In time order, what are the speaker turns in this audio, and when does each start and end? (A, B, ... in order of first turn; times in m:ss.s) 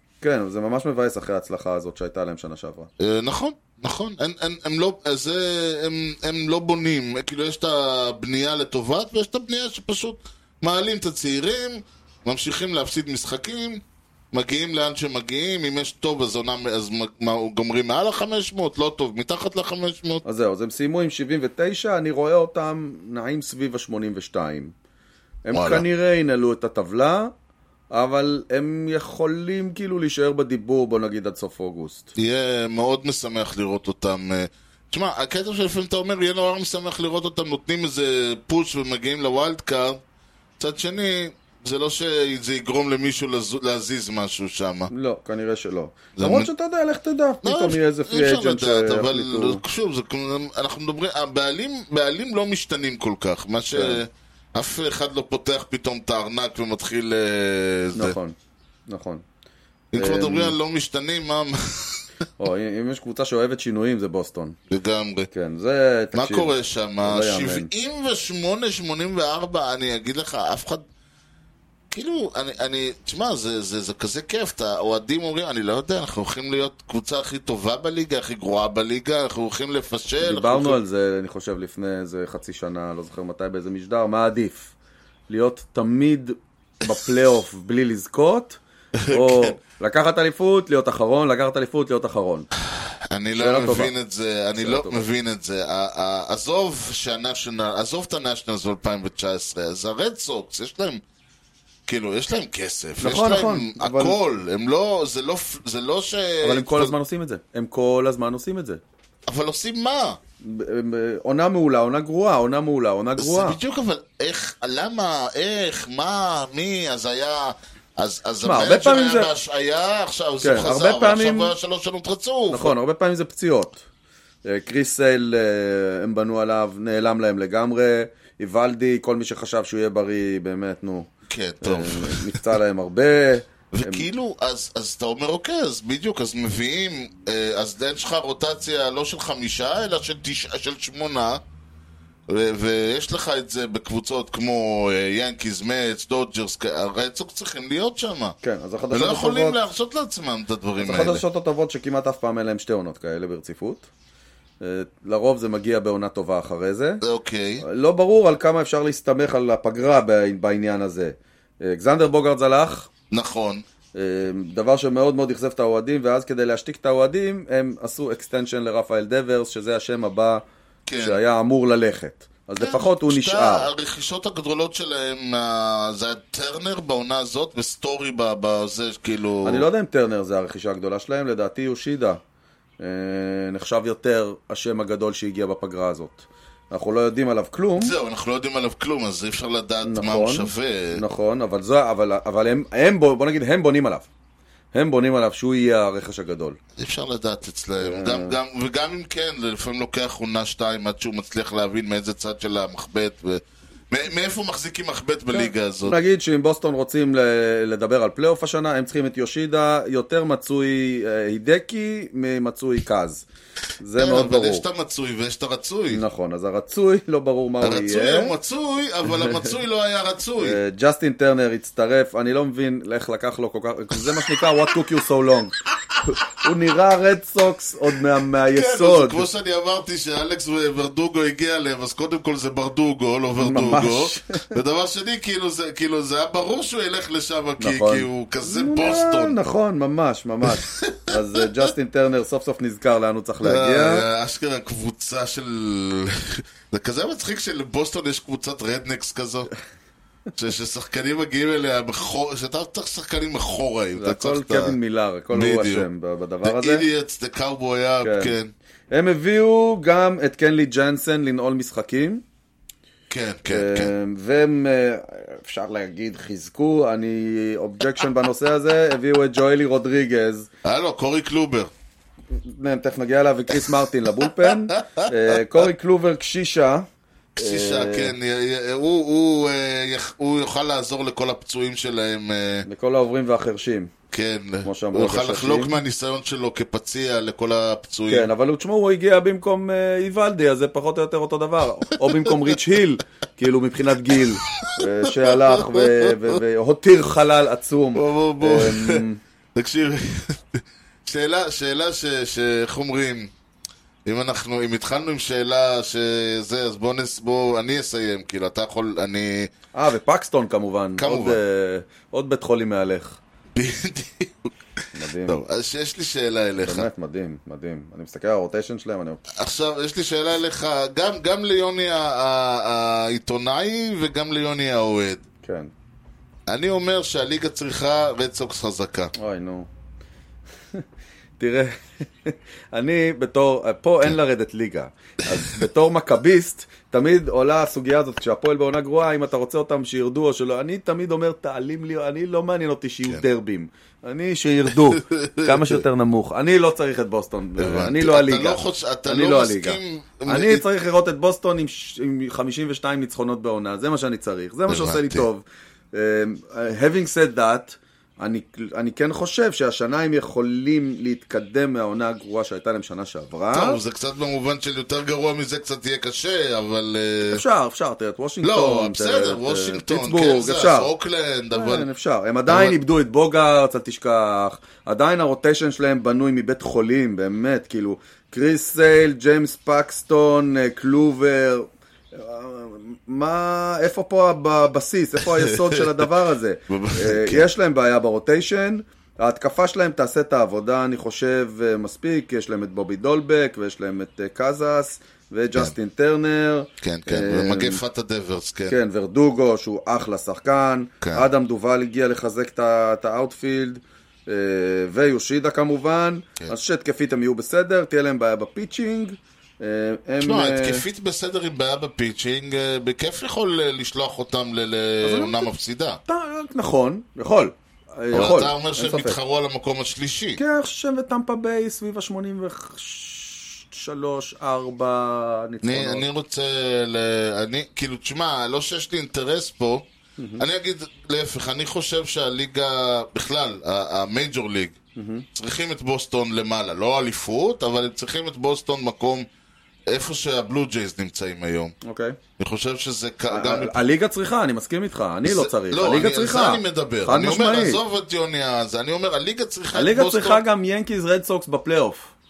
0:00.2-0:02.9 A
0:03.0-0:20.2 B
0:20.2-0:24.7 A
0:25.4-0:27.3 A
0:25.5-0:25.8 B
0:27.9-0:32.1 A
0:32.2-0:40.0 B
0:40.6-0:44.9 B
0:44.9-0:49.6 A
0:46.2-0:46.5 B
0:47.4-0:58.2 B
0:53.7-0:54.0 A
0:57.9-0:58.3 A
0:58.9-0:59.2 A
0:59.9-1:02.1 B
0:59.9-1:00.6 A
1:02.4-1:04.6 A
1:04.7-1:05.3 B
1:05.3-1:07.7 A
1:06.1-1:10.8 B
1:11.9-1:20.8 B
1:20.2-1:24.7 A
1:25.3-1:32.5 A
1:29.0-1:29.6 B
1:33.1-1:41.0 B
1:33.3-1:33.9 A
1:34.5-1:35.0 A
1:41.9-1:46.9 B
1:43.0-1:44.2 A
1:46.4-1:48.8 A
1:49.2-1:50.2 B
1:50.4-1:53.6 A
1:53.2-2:02.7 B
1:58.4-1:59.3 A
2:00.4-2:01.5 A
2:02.5-2:03.8 A
2:04.4-2:11.1 A
2:11.3-2:12.5 B
2:11.6-2:14.1 A
2:13.7-2:21.4 B
2:22.3-2:28.4 B
2:28.4-2:29.6 A
2:28.9-2:31.2 B
2:30.8-2:33.9 A
2:34.6-2:37.0 A
2:37.0-2:37.6 B
2:37.6-2:42.9 A
2:43.1-2:43.6 B
2:43.9-2:50.4 A
2:50.9-2:51.2 B
2:50.9-2:53.7 A
2:52.6-2:59.7 B
2:59.4-3:02.2 A
3:02.8-3:07.9 A
3:07.8-3:11.0 B
3:09.8-3:14.1 A
3:14.7-3:16.6 A
3:16.8-3:26.0 B
3:17.8-3:18.4 A
3:25.3-3:33.2 A
3:33.8-3:34.6 A
3:34.0-3:36.0 B
3:35.9-3:38.3 A
3:37.6-3:40.6 B
3:40.4-3:49.3 A
3:48.5-3:59.4 B
3:53.4-3:54.6 A
3:57.6-4:04.0 A
4:00.4-4:01.4 B
4:03.4-4:09.5 B
4:10.4-4:14.8 B
4:14.0-4:16.8 A
4:15.3-4:15.9 B
4:16.4-4:18.5 B
4:18.0-4:18.3 A
4:18.9-4:22.2 A
4:23.1-4:23.9 B
4:23.5-4:30.5 A
4:30.6-4:31.7 B
4:32.3-4:36.8 A
4:34.2-4:35.6 B
4:37.3-4:42.7 B
4:37.4-4:38.1 A
4:42.6-4:43.9 A
4:44.1-4:48.3 B
4:44.6-4:45.8 A
4:48.1-4:59.2 A
4:54.1-4:56.4 B
4:57.9-4:59.0 B
4:59.5-5:03.3 B
5:04.0-5:09.5 B
5:09.7-5:13.2 A
5:11.0-5:11.4 B
5:13.5-5:14.5 B
5:14.9-5:15.4 A
5:15.2-5:16.9 B
5:16.6-5:19.2 A
5:19.3-5:25.2 B
5:25.4-5:25.7 A
5:26.5-5:29.1 B
5:29.1-5:29.7 A
5:31.4-6:03.8 A
5:44.7-5:45.8 B
5:47.6-5:50.6 B
5:54.7-5:55.2 B
6:03.5-6:07.4 B
6:07.3-6:10.9 A
6:08.4-6:11.9 B
6:11.5-6:37.8 A
6:12.5-6:12.8 B
6:25.2-6:26.0 B
6:26.7-6:27.5 B
6:36.8-6:38.8 B
6:38.7-6:50.8 A
6:41.0-6:41.2 B
6:50.2-6:56.0 B
6:55.0-6:55.5 A
6:56.0-6:59.2 A
6:58.1-7:00.4 B
7:00.4-7:06.0 A
7:05.6-7:09.8 B
7:10.2-7:10.4 A
7:10.4-7:14.8 B
7:15.0-7:15.2 A
7:15.3-7:19.3 B
7:19.9-7:21.7 B
7:21.8-7:22.2 A
7:22.4-7:23.8 B
7:23.3-7:27.8 A
7:25.2-7:30.4 B
7:29.7-7:32.1 A